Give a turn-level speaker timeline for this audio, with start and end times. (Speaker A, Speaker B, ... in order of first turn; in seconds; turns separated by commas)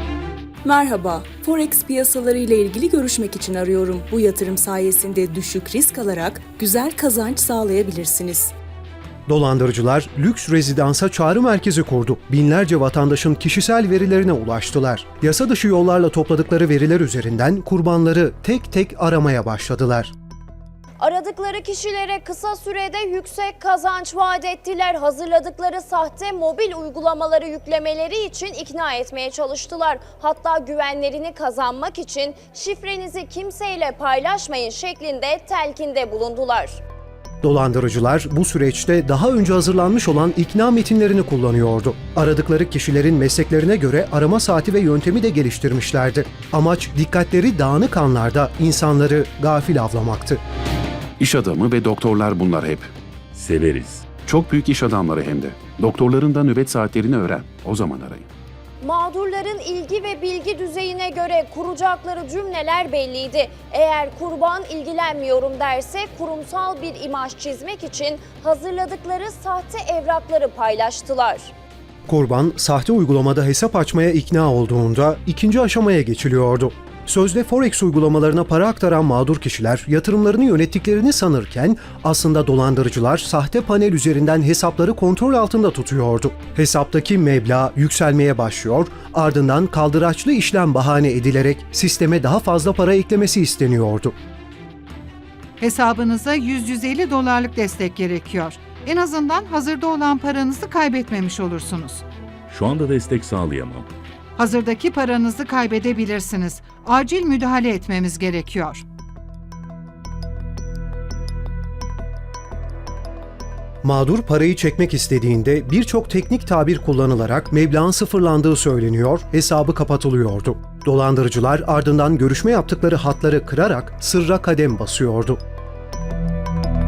Speaker A: 0.6-8.5, Speaker B: 9.3-20.1, Speaker C: 21.0-36.8, Speaker B: 37.4-50.4, Speaker D: 51.2-52.9, Speaker E: 53.3-54.2, Speaker D: 54.2-58.3, Speaker C: 58.8-71.5, Speaker B: 72.1-94.1, Speaker F: 95.6-102.0, Speaker E: 102.5-103.9, Speaker F: 104.4-108.8, Speaker B: 113.8-125.4